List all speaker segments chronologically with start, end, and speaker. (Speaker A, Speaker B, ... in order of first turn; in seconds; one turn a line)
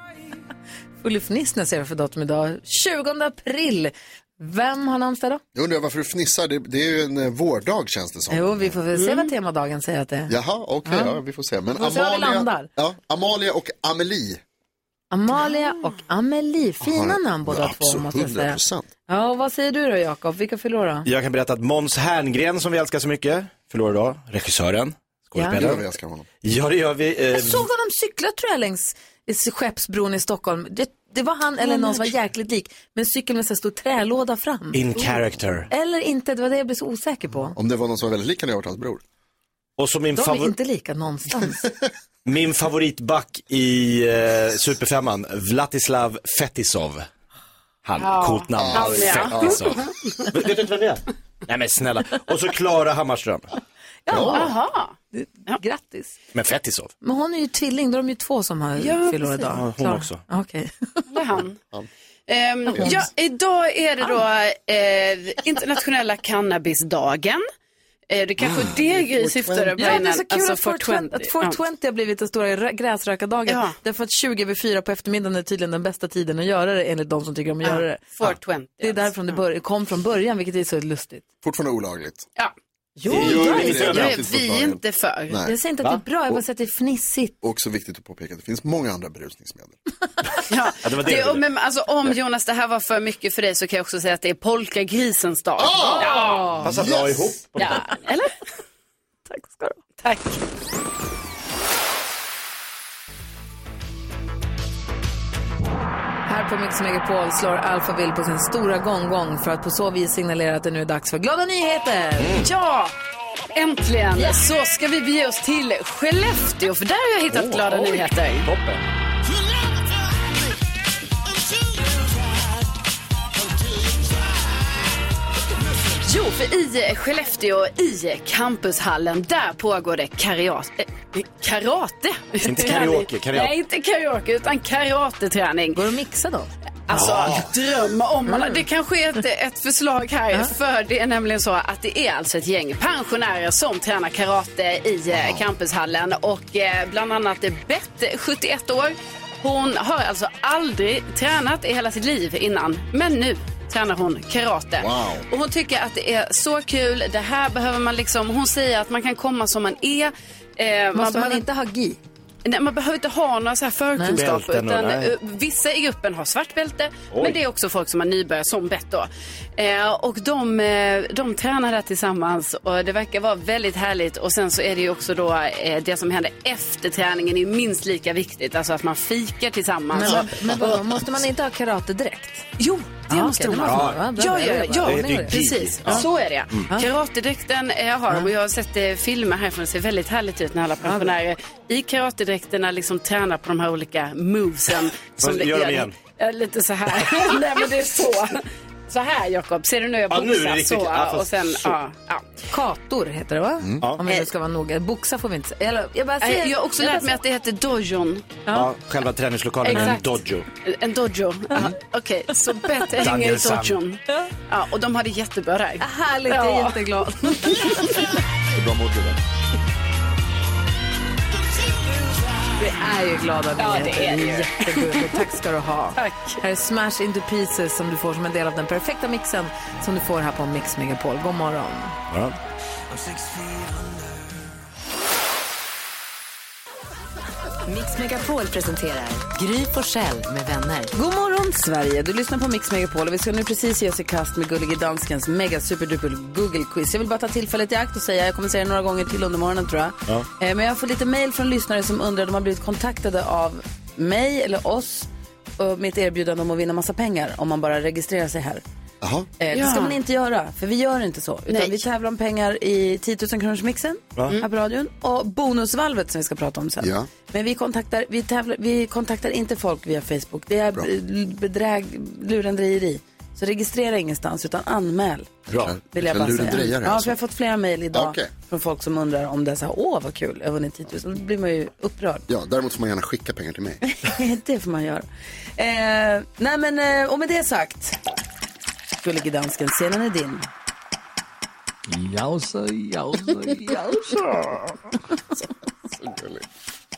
Speaker A: 1.0-5.4
Speaker B: 5.5-8.8
Speaker A: 8.3-10.3
Speaker C: 8.9-9.3
Speaker B: 10.3-14.4
Speaker A: 10.9-11.2
Speaker A: 11.7-12.7
Speaker A: 15.1-21.1
Speaker B: 16.8-18.9
Speaker D: 21.1-25.8
Speaker B: 25.5-26.3
Speaker D: 26.4-27.7
Speaker A: 27.3-35.1
Speaker D: 34.7-35.7
Speaker A: 35.7-37.6
Speaker B: 37.5-39.0
Speaker D: 39.8-40.5
Speaker A: 40.1-41.6
Speaker D: 42.2-47.1
Speaker D: 47.9-53.5
Speaker C: 48.0-49.8
Speaker B: 48.6-49.6
Speaker A: 54.1-54.5
Speaker B: 54.1-54.5
Speaker C: 54.3-55.0
Speaker A: 55.1-56.2
Speaker D: 56.3-56.9
Speaker A: 57.0-61.0
Speaker C: 58.8-59.5
Speaker D: 59.5-60.2
Speaker C: 61.1-61.6
Speaker C: 62.3-67.4
Speaker A: 62.7-63.0
Speaker C: 68.1-71.6
Speaker B: 68.4-69.9
Speaker A: 69.8-78.1
Speaker C: 73.5-73.8
Speaker C: 77.6-79.3
Speaker A: 78.8-81.2
Speaker B: 81.4-82.3
Speaker A: 83.0-83.9
Speaker B: 83.1-85.5
Speaker D: 83.1-84.2
Speaker C: 83.1-85.4
Speaker A: 85.4-87.3
Speaker B: 87.4-89.8
Speaker C: 90.5-96.4
Speaker D: 90.8-91.4
Speaker B: 95.6-97.3
Speaker A: 95.8-96.8
Speaker D: 96.6-97.9
Speaker C: 97.6-98.3
Speaker A: 97.6-97.9
Speaker A: 99.3-99.8
Speaker C: 100.0-100.4
Speaker A: 106.3-112.4
Speaker C: 112.4-112.9
Speaker C: 113.5-118.5
Speaker D: 117.3-118.8
Speaker C: 126.0-135.8
Speaker D: 132.4-133.5
Speaker A: 135.7-136.5
Speaker C: 136.9-161.4
Speaker D: 136.9-137.5
Speaker A: 138.3-138.6
Speaker B: 145.1-145.4
Speaker B: 154.8-155.3
Speaker A: 160.9-162.0
Speaker C: 162.4-180.3
Speaker D: 164.1-165.1
Speaker D: 167.1-167.4
Speaker A: 179.9-182.5
Speaker C: 182.6-202.2
Speaker A: 183.1-185.3
Speaker D: 183.6-184.1
Speaker D: 184.8-186.6
Speaker A: 190.8-191.1
Speaker D: 195.2-195.9
Speaker D: 200.1-201.8
Speaker A: 202.5-207.2
Speaker B: 203.6-203.9
Speaker C: 206.2-208.4
Speaker D: 208.5-210.5
Speaker C: 209.6-218.0
Speaker D: 213.0-213.8
Speaker A: 215.8-218.0
Speaker B: 218.5-219.2
Speaker A: 222.6-232.0
Speaker C: 223.6-225.1
Speaker C: 226.0-226.4
Speaker D: 232.1-232.4
Speaker E: 232.9-234.1
Speaker E: 237.7-240.9
Speaker A: 237.8-239.8
Speaker A: 240.9-258.6
Speaker B: 259.0-259.3
Speaker A: 259.4-282.3
Speaker C: 259.5-260.0
Speaker C: 261.5-261.8
Speaker B: 266.8-267.1
Speaker B: 275.5-277.2
Speaker D: 275.5-275.8
Speaker B: 277.9-278.3
Speaker B: 282.3-283.8
Speaker A: 283.9-285.1
Speaker A: 285.6-288.0
Speaker A: 289.0-290.5
Speaker F: 291.9-294.8
Speaker B: 296.0-296.4